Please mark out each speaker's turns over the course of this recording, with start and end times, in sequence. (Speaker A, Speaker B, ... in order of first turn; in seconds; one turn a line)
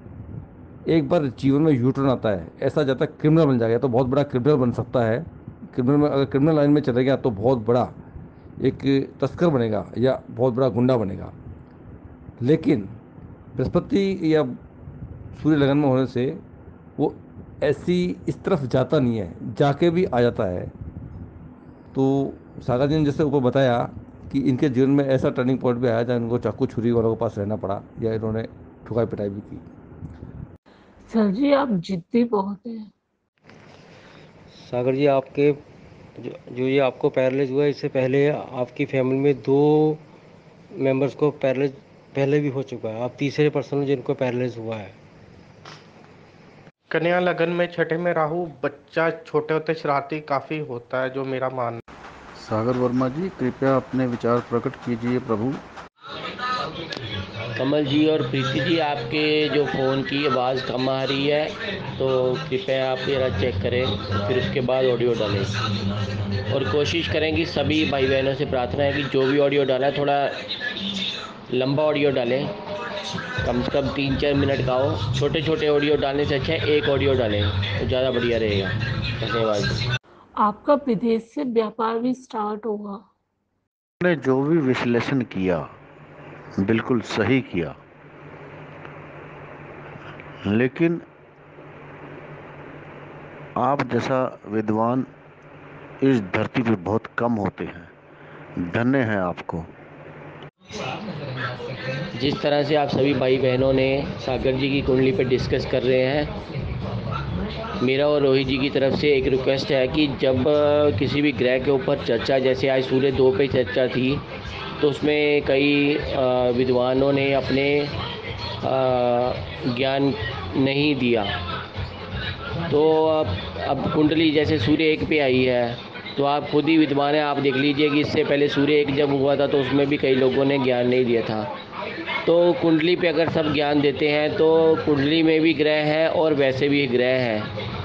Speaker A: 0.9-7.9
Speaker A: 8.6-11.3
Speaker A: 12.4-12.9
Speaker A: 13.6-14.6
Speaker A: 15.3-16.4
Speaker A: 17.0-20.7
Speaker A: 21.9-29.6
Speaker B: 31.1-32.9
Speaker C: 34.5-35.6
Speaker C: 36.2-40.0
Speaker C: 40.8-45.0
Speaker D: 46.9-51.8
Speaker E: 52.4-55.6
Speaker F: 57.5-65.6
Speaker F: 66.5-70.5
Speaker F: 71.5-72.5
Speaker F: 73.4-79.8
Speaker B: 80.4-83.0
Speaker G: 84.0-85.7
Speaker G: 86.6-87.8
Speaker G: 90.5-91.0
Speaker G: 93.6-95.1
Speaker G: 96.0-97.9
Speaker G: 98.6-99.7
Speaker F: 102.1-106.3
Speaker F: 107.8-114.2
Speaker F: 114.8-118.0
Speaker F: 118.6-121.4
Speaker F: 122.7-131.5
Speaker F: 132.2-137.5